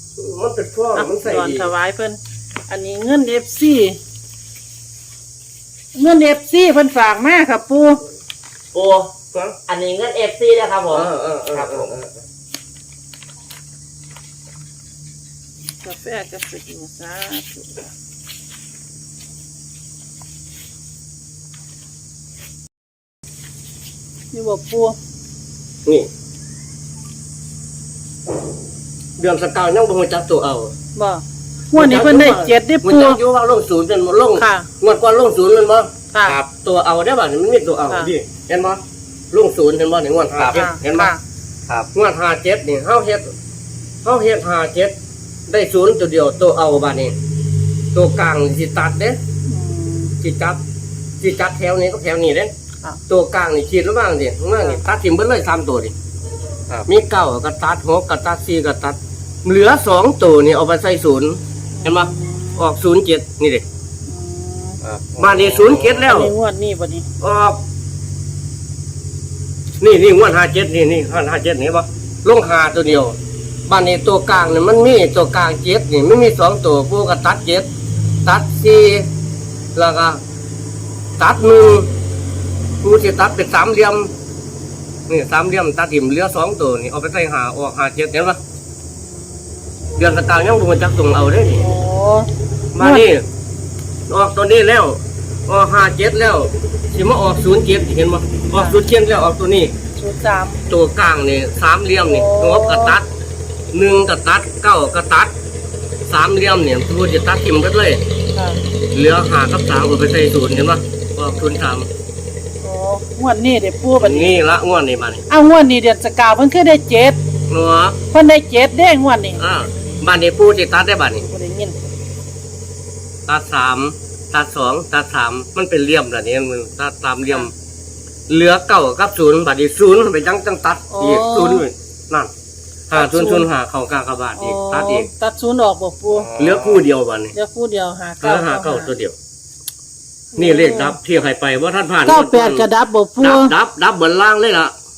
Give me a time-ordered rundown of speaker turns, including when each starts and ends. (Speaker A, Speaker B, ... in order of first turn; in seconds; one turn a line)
Speaker A: 0.1-1.7
Speaker B: 0.9-4.0
Speaker B: 5.9-8.0
Speaker C: 8.7-9.1
Speaker C: 9.7-11.9
Speaker A: 10.9-12.2
Speaker B: 15.8-17.9
Speaker B: 24.3-25.0
Speaker A: 29.2-30.7
Speaker B: 30.9-33.2
Speaker A: 31.7-35.9
Speaker B: 34.4-34.7
Speaker B: 36.1-36.4
Speaker A: 36.5-38.8
Speaker A: 39.3-41.1
Speaker C: 40.3-40.6
Speaker B: 40.5-41.2
Speaker A: 41.9-43.3
Speaker A: 44.0-44.9
Speaker A: 45.5-47.1
Speaker A: 47.9-49.2
Speaker B: 49.5-50.1
Speaker A: 50.2-50.6
Speaker A: 51.2-52.5
Speaker A: 53.1-55.9
Speaker A: 56.8-63.6
Speaker B: 61.8-62.7
Speaker B: 64.0-64.8
Speaker C: 64.8-66.1
Speaker A: 65.2-66.3
Speaker B: 65.9-67.1
Speaker A: 67.2-67.6
Speaker A: 69.8-73.2
Speaker A: 73.7-77.7
Speaker A: 78.2-79.1
Speaker A: 79.8-80.2
Speaker A: 81.2-81.9
Speaker A: 82.8-84.1
Speaker A: 85.1-88.4
Speaker A: 90.0-91.7
Speaker B: 91.6-93.1
Speaker A: 92.7-93.2
Speaker A: 94.1-99.7
Speaker B: 98.5-98.8
Speaker B: 99.9-100.6
Speaker A: 100.7-103.1
Speaker B: 102.0-103.0
Speaker A: 103.7-105.3
Speaker A: 106.1-108.0
Speaker B: 108.3-108.6
Speaker A: 108.9-111.9
Speaker B: 111.3-111.7
Speaker B: 112.6-114.4
Speaker A: 114.0-115.2
Speaker B: 115.3-117.2
Speaker A: 117.5-118.0
Speaker B: 118.1-119.4
Speaker A: 119.4-121.2
Speaker B: 121.2-121.8
Speaker A: 123.3-127.5
Speaker A: 128.3-132.3
Speaker B: 130.9-131.6
Speaker A: 132.9-135.1
Speaker B: 132.9-133.5
Speaker B: 134.3-136.3
Speaker C: 136.1-136.9
Speaker A: 136.3-137.3
Speaker B: 137.3-138.9
Speaker A: 138.2-139.1
Speaker B: 140.3-141.0
Speaker A: 140.3-142.7
Speaker B: 142.0-143.5
Speaker A: 143.2-144.7